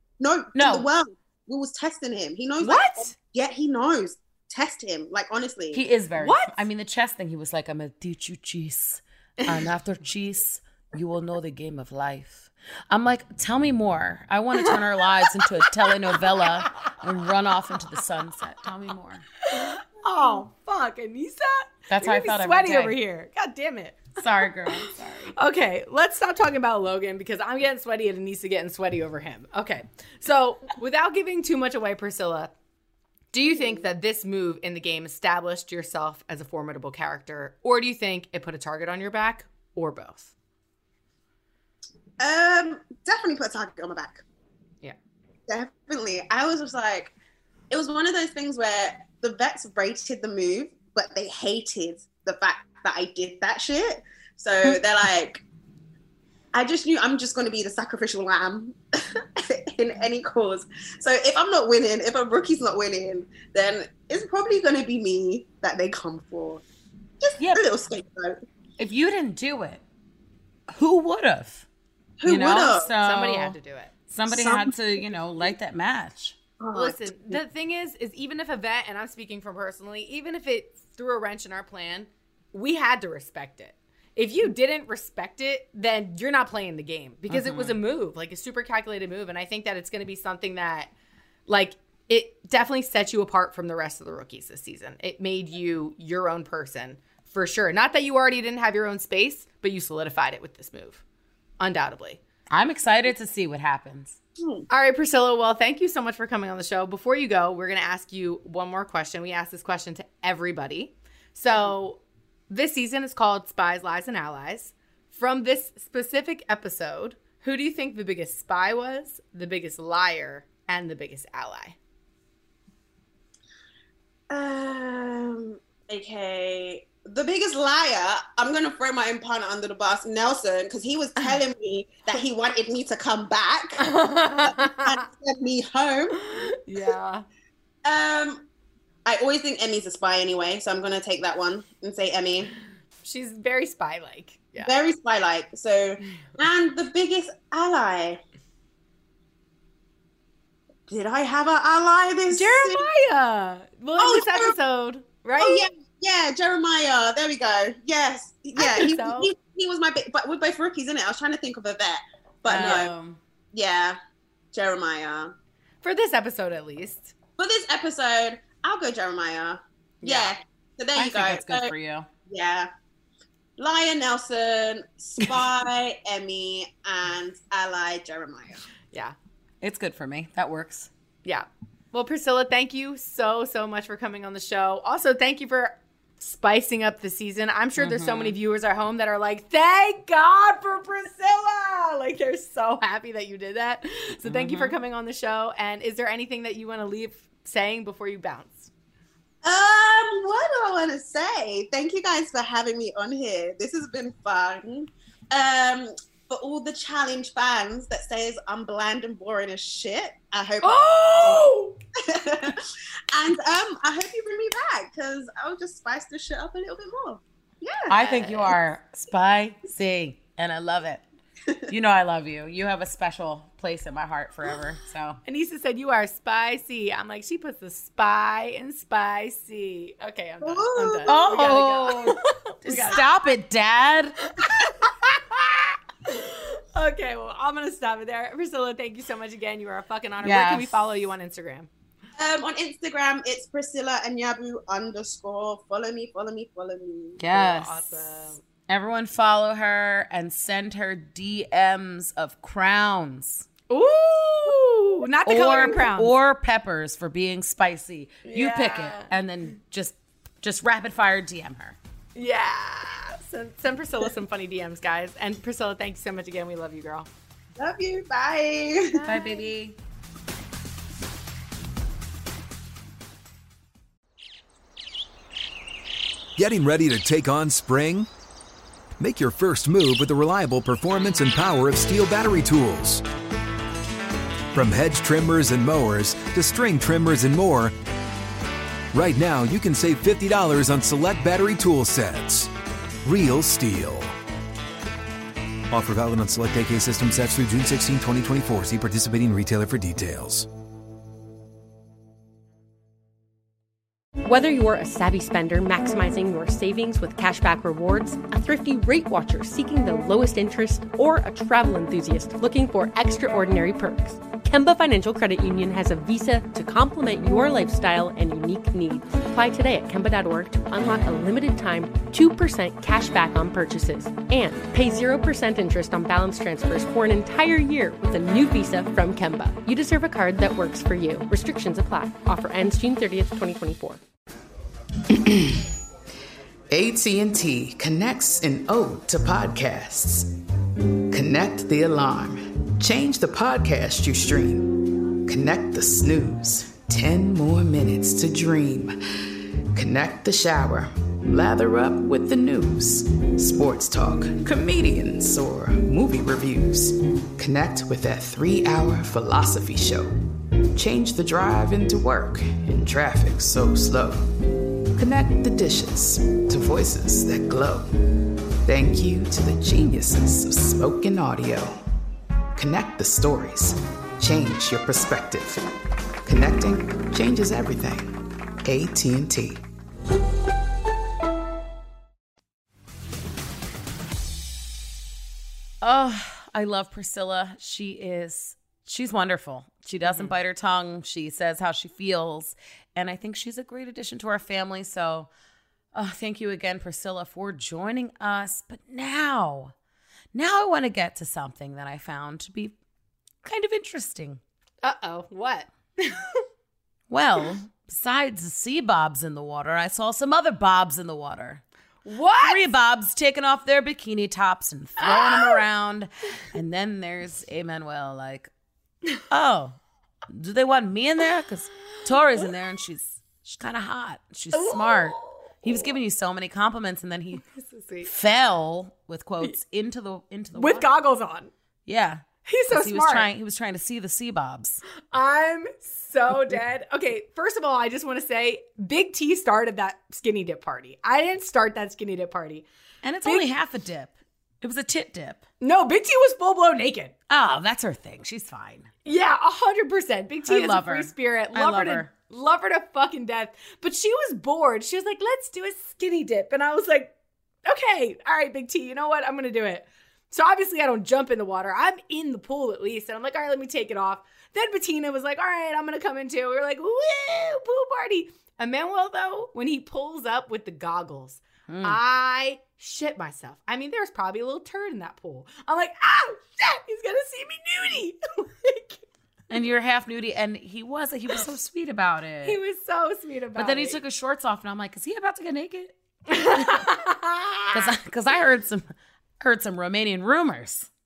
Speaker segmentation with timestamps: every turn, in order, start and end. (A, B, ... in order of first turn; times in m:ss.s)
0:00.2-0:05.8 A
0:00.6-0:00.9 B
0:02.6-0:03.1 C
0:05.7-0:19.3 B
0:06.2-0:06.6 C
0:14.6-0:16.9 C
0:19.5-0:24.2 C
0:21.9-0:23.0 B
0:24.2-0:25.4 B
0:24.8-0:32.5 C
0:33.3-0:40.3 C
0:33.6-0:33.8 A
0:42.2-0:44.2 A
0:45.5-0:47.1 A
0:47.7-0:55.4 A
0:56.5-1:06.6 A
1:07.2-1:08.4 A
1:07.4-1:07.6 B
1:08.8-1:09.8 B
1:10.7-1:11.7 B
1:12.2-1:12.9 A
1:12.2-1:13.6 B
1:13.0-1:13.9 C
1:14.1-1:16.4 B
1:14.3-1:14.8 A
1:16.6-1:17.4 A
1:16.7-1:30.9 C
1:27.3-1:27.8 B
1:31.5-1:41.0 C
1:41.6-1:42.2 C
1:42.5-1:44.2 B
1:44.4-1:44.7 A
1:44.7-2:01.8 C
2:04.3-2:13.9 A
2:13.8-2:15.0 C
2:14.4-2:16.2 A
2:16.2-2:17.2 C
2:17.8-2:18.5 A
2:19.1-2:22.5 A
2:23.0-2:24.8 C
2:24.6-2:28.2 A
2:30.9-2:32.9 A
2:32.3-2:35.7 C
2:34.0-2:34.6 A
2:35.4-2:42.9 A
2:38.6-2:39.3 C
2:42.5-2:43.2 B
2:42.5-2:42.8 C
2:43.5-2:44.0 A
2:44.5-2:45.4 A
2:45.8-2:47.1 C
2:47.4-2:51.7 A
2:50.0-2:50.4 C
2:51.0-2:52.1 B
2:52.3-2:52.7 A
2:53.6-2:58.6 A
2:59.6-3:00.9 B
3:01.2-3:18.7 C
3:07.8-3:08.4 B
3:14.3-3:14.8 B
3:19.4-3:31.4 A
3:30.6-3:31.8 C
3:32.0-3:38.5 A
3:37.9-3:41.0 B
3:38.0-3:38.5 C
3:41.7-3:45.2 B
3:45.2-3:53.1 C
3:50.4-3:51.4 A
3:51.1-3:54.2 B
3:54.4-4:01.7 C
4:00.2-4:00.8 B
4:02.2-4:07.2 A
4:07.2-4:13.5 B
4:07.3-4:08.4 C
4:13.7-4:16.1 C
4:15.2-4:21.8 B
4:18.2-4:19.1 C
4:22.2-4:27.1 C
4:27.6-4:29.0 A
4:28.9-4:29.4 C
4:29.0-4:29.8 B
4:36.4-4:38.1 D
4:39.0-4:43.0 D
4:44.5-4:47.7 D
4:48.9-4:52.5 D
4:53.0-4:54.2 D
4:55.7-5:00.5 D
5:04.2-5:34.0 E
5:35.1-5:35.7 F
5:36.7-5:40.3 F
5:41.1-6:00.1 F
6:00.7-6:04.2 F
6:05.0-6:07.9 F
6:08.6-6:11.8 F
6:12.6-6:15.7 F
6:16.2-6:19.6 F
6:25.8-6:35.3 B
6:30.0-6:30.4 C
6:35.9-6:39.7 B
6:40.3-6:42.8 B
6:43.4-6:44.4 B
6:44.8-6:46.4 C
6:47.1-6:51.6 B
6:52.0-6:52.7 C
6:52.4-6:58.5 B
6:55.0-6:55.6 C
6:59.3-7:07.5 B
7:04.5-7:05.9 C
7:07.4-7:08.1 C
7:08.0-7:10.9 B
7:10.6-7:11.5 C
7:11.9-7:14.8 B
7:12.5-7:13.3 C
7:15.1-7:22.6 C
7:23.0-7:25.4 B
7:25.6-7:27.1 C
7:27.3-7:28.9 B
7:29.0-7:37.1 C
7:30.4-7:32.1 B
7:37.6-7:59.0 C
7:51.7-7:52.0 B
7:59.5-8:02.6 B
8:02.4-8:04.0 C
8:03.6-8:07.0 B
8:06.3-8:07.8 C
8:07.7-8:10.9 B